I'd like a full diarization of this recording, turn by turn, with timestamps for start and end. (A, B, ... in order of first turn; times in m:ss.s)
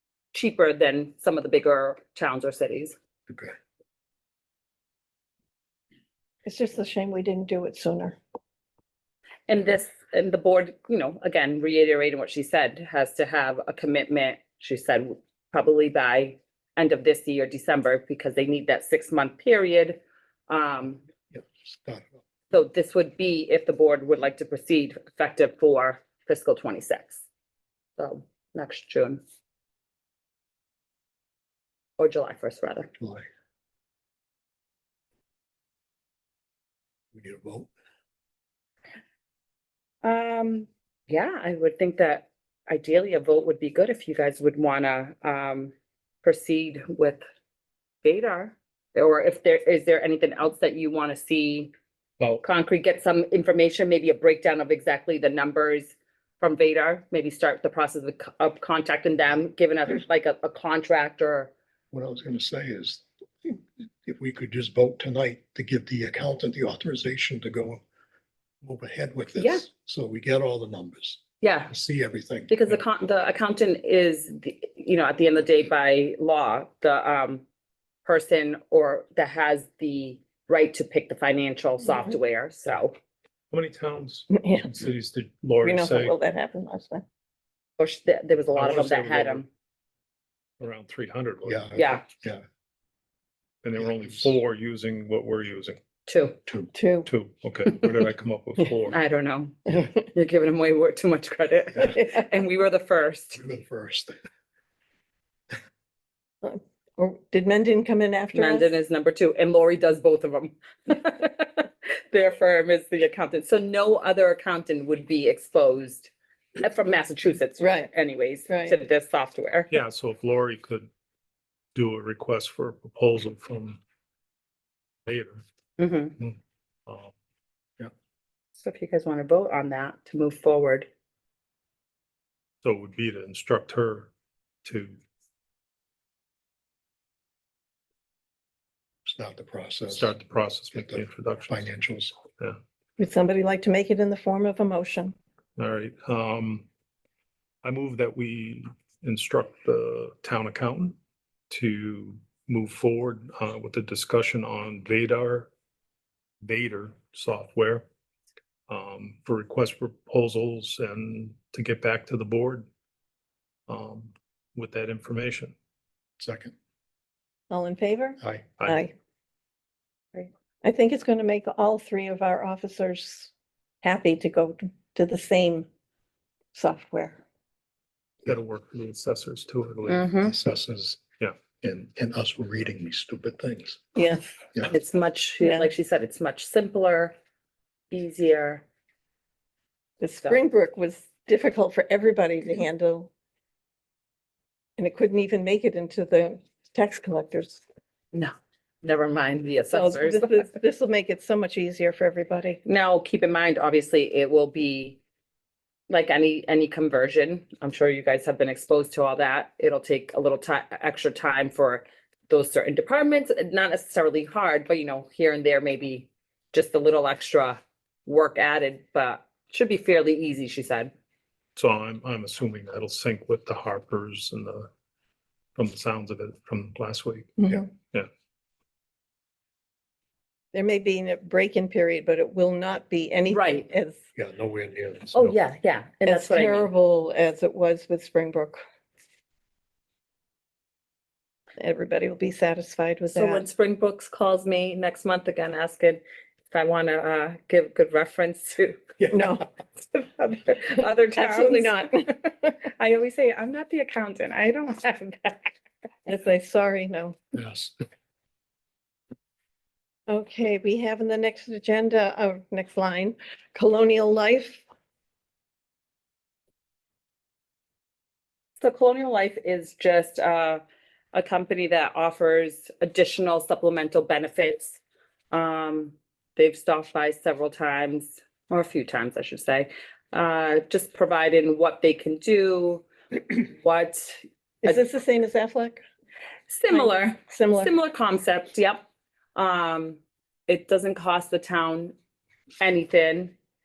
0:00.3-0:02.9 A
0:06.4-0:08.2 B
0:09.5-0:21.0 A
0:21.3-0:22.2 C
0:22.5-0:27.2 A
0:28.0-0:29.2 A
0:32.0-0:32.9 A
0:33.0-0:33.2 C
0:37.1-0:37.7 C
0:40.0-0:45.7 A
0:46.2-0:47.2 A
0:48.0-0:51.7 A
0:52.4-1:01.5 A
1:01.9-1:07.8 C
1:08.6-1:12.6 C
1:09.4-1:09.6 A
1:11.4-1:11.7 A
1:12.5-1:17.4 A
1:18.0-1:23.0 A
1:23.5-1:26.2 D
1:24.3-1:24.7 B
1:25.6-1:27.0 B
1:27.8-1:29.5 A
1:28.5-1:29.4 D
1:30.6-1:31.6 D
1:31.5-1:32.4 C
1:31.8-1:32.0 A
1:33.6-1:35.8 D
1:33.9-1:34.3 C
1:36.1-1:36.4 A
1:36.7-1:37.1 B
1:37.1-1:39.0 D
1:38.9-1:43.4 A
1:43.4-1:44.2 C
1:46.4-1:48.7 B
1:48.3-1:59.7 A
1:57.6-1:57.9 B
1:58.5-1:58.8 B
1:59.7-2:00.9 D
2:01.8-2:03.8 D
2:05.1-2:05.4 D
2:05.8-2:06.2 A
2:06.9-2:07.1 D
2:08.6-2:10.9 A
2:12.6-2:14.1 D
2:14.6-2:15.0 D
2:19.1-2:20.1 C
2:19.9-2:21.7 D
2:20.7-2:22.2 C
2:23.0-2:25.2 B
2:25.6-2:26.7 D
2:27.6-2:31.0 D
2:31.5-2:35.5 D
2:36.4-2:37.9 D
2:38.7-2:42.7 D
2:43.7-2:45.6 D
2:46.2-2:46.5 C
2:47.5-2:48.9 B
2:48.2-2:48.5 C
2:50.2-2:53.3 B
2:53.8-2:55.7 B
2:56.5-2:57.2 B
2:58.2-3:00.1 D
2:59.9-3:00.3 A
3:00.3-3:01.0 C
3:01.6-3:03.8 C
3:04.0-3:04.4 B
3:04.7-3:07.2 A
3:05.4-3:05.7 B
3:07.9-3:08.6 A
3:10.0-3:13.1 B
3:14.8-3:17.6 B
3:18.1-3:20.5 A
3:19.7-3:22.6 B
3:22.6-3:25.0 A
3:25.9-3:40.9 A
3:41.6-3:44.7 D
3:45.6-3:48.1 D
3:47.4-3:47.7 B
3:50.5-3:54.0 B
3:53.3-3:53.7 A
3:54.2-3:55.3 C
3:55.1-3:56.7 A
3:56.1-3:58.6 B
4:01.6-4:03.4 B
4:03.1-4:15.5 A
4:09.1-4:09.4 B
4:11.2-4:12.3 B
4:16.1-4:17.2 B
4:17.3-4:17.8 C
4:20.1-4:24.6 B
4:28.6-4:30.6 A
4:31.1-4:34.8 A
4:35.3-4:44.8 A
4:44.6-4:45.8 B
4:46.5-4:51.9 A
4:46.7-4:47.7 B
4:52.6-4:53.3 A